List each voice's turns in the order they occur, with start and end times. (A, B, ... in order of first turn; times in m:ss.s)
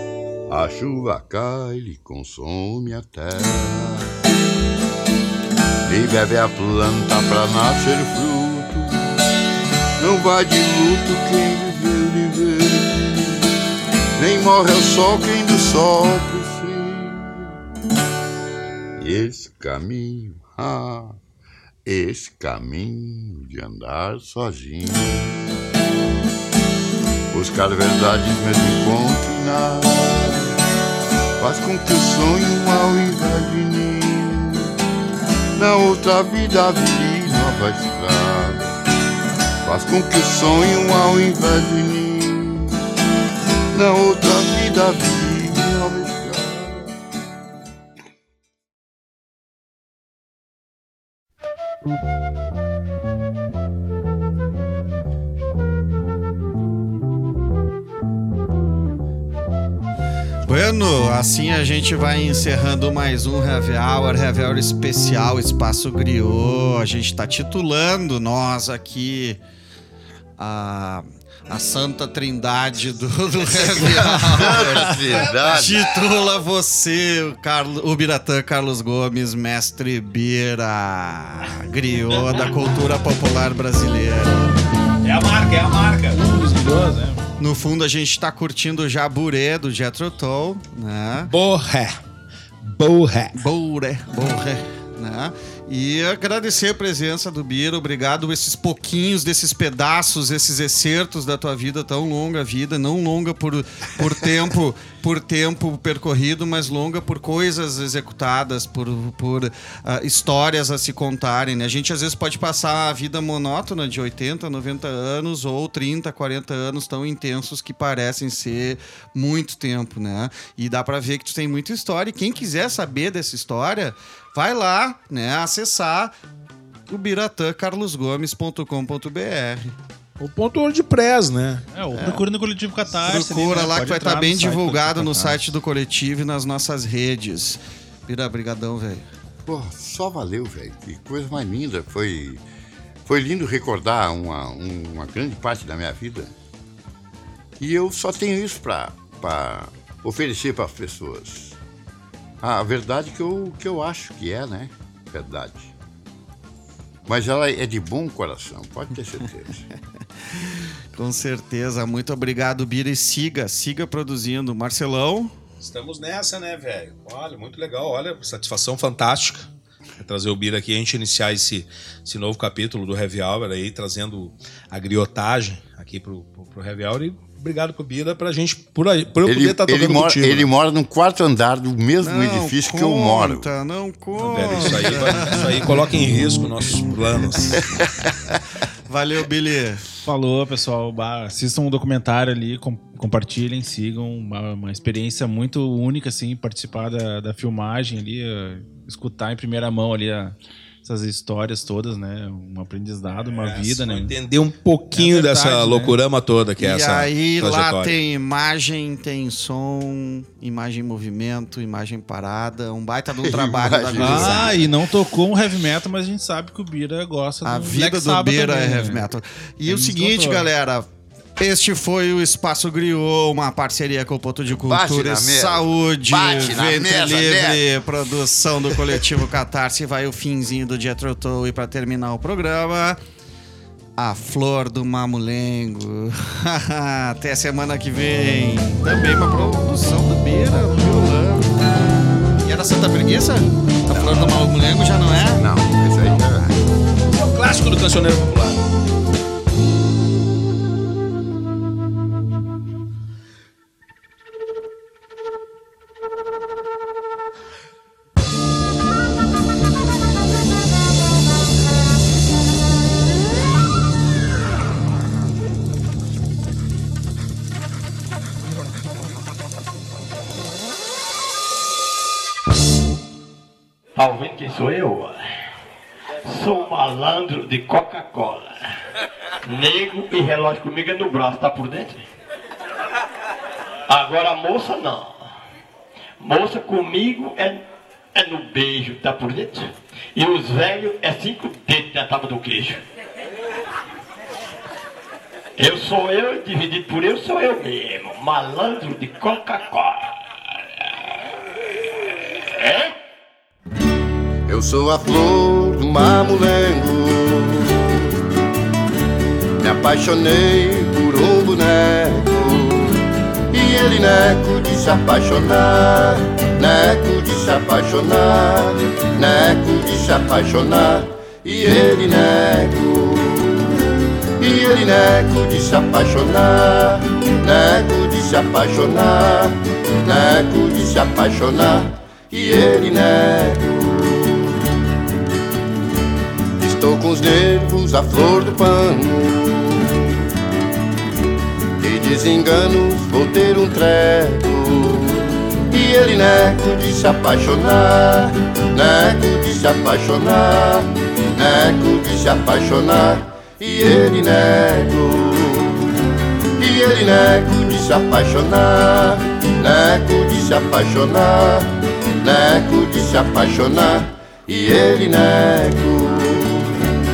0:00.5-0:04.2 A
0:05.8-0:09.2 A
0:10.0-0:13.5 A
0:14.2-0:17.6 A
0:19.0-0:21.2 A
0:21.8-0:25.5 A
0:27.3-0:30.6 A
0:31.4-0:34.7 A
0:35.5-0:38.8 A
0:39.6-0:42.8 A
0:43.7-0:47.0 A
1:00.4-1:09.4 B
1:10.4-1:24.5 B
1:13.7-1:15.9 A
1:25.0-1:26.2 C
1:26.1-1:27.2 D
1:27.4-1:31.3 B
1:31.3-1:32.0 C
1:32.6-1:33.4 C
1:33.4-2:06.1 B
2:06.9-2:09.7 B
2:10.2-2:11.7 C
2:11.7-2:15.5 D
2:11.9-2:12.2 B
2:13.0-2:19.1 B
2:19.4-2:22.4 A
2:23.0-2:26.3 A
2:27.6-2:31.6 A
2:32.4-2:35.7 A
2:37.1-2:39.6 A
2:40.3-2:45.3 B
2:45.6-2:49.5 C
2:50.0-3:00.5 C
2:59.2-3:03.5 A
3:02.0-3:05.5 B
3:04.2-3:07.6 C
3:08.9-3:09.8 B
3:10.0-3:24.1 D
3:23.3-3:28.0 C
3:24.9-3:26.0 D
3:26.6-3:34.5 B
3:33.2-3:34.6 A
3:34.0-3:39.1 D
3:37.4-3:40.8 B
3:39.6-3:40.5 D
3:41.4-3:53.0 B
3:44.5-3:47.6 A
3:54.0-4:01.5 B
4:02.4-4:05.4 B
4:03.9-4:04.4 A
4:05.4-4:06.6 A
4:07.1-4:08.6 C
4:34.0-4:35.2 E
4:36.2-4:38.7 E
4:39.4-4:42.0 E
4:43.9-4:45.3 E
4:46.2-4:52.8 E
4:55.6-5:00.2 E
5:02.6-5:02.9 E
5:04.5-5:08.1 A
5:09.6-5:23.8 A
5:24.4-5:34.7 A
5:36.6-5:40.2 A
5:41.8-5:55.9 A
5:56.6-6:06.8 A